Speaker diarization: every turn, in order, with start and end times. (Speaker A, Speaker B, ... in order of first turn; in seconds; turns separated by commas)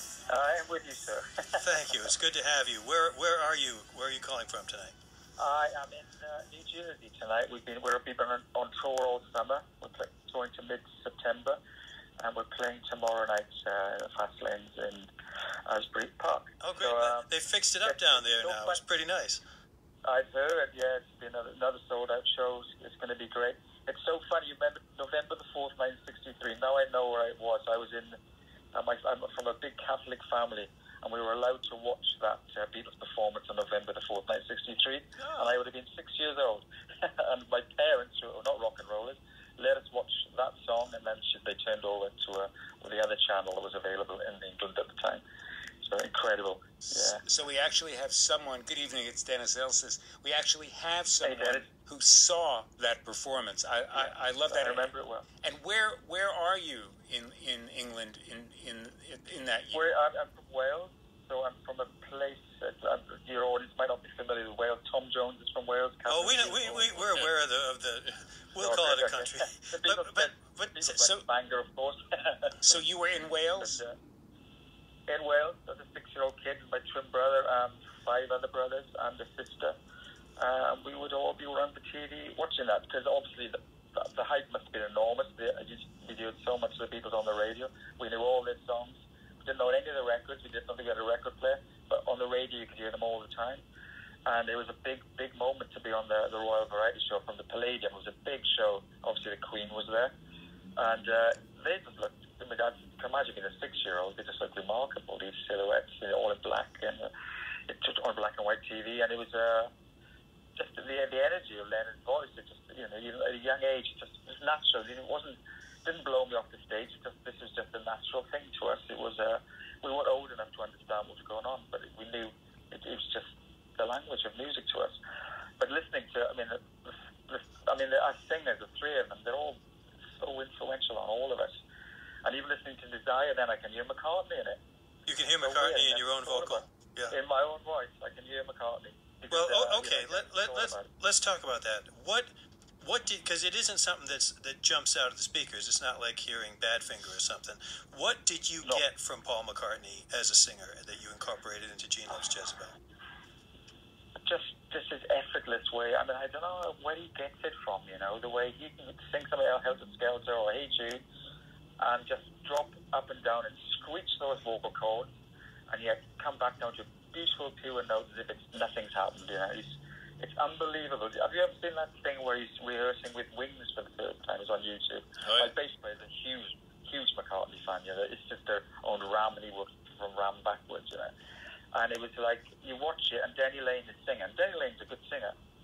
Speaker A: 0.3-2.0, Speaker B: 1.6-5.0, Speaker A: 5.4-11.6, Speaker A: 12.2-15.1, Speaker A: 15.7-17.3, Speaker B: 16.6-19.4, Speaker A: 17.8-18.8, Speaker A: 20.0-28.2, Speaker A: 28.7-45.2, Speaker B: 35.2-35.5, Speaker A: 45.8-47.2, Speaker C: 47.0-54.9, Speaker A: 51.2-51.7, Speaker A: 53.9-55.3, Speaker C: 55.4-59.9, Speaker A: 59.7-67.2, Speaker B: 66.1-71.2, Speaker A: 68.6-72.8, Speaker C: 72.6-73.8, Speaker A: 73.5-73.9, Speaker A: 75.1-79.8, Speaker A: 80.4-93.6, Speaker A: 94.3-100.1, Speaker A: 100.8-107.1, Speaker A: 107.7-109.7, Speaker A: 110.6-125.0, Speaker A: 125.6-129.6, Speaker A: 130.2-131.6, Speaker A: 132.2-134.6, Speaker B: 135.1-137.2, Speaker A: 135.4-140.9, Speaker B: 139.3-152.8, Speaker A: 154.3-161.0, Speaker A: 161.8-165.1, Speaker A: 165.7-181.1, Speaker A: 181.7-185.3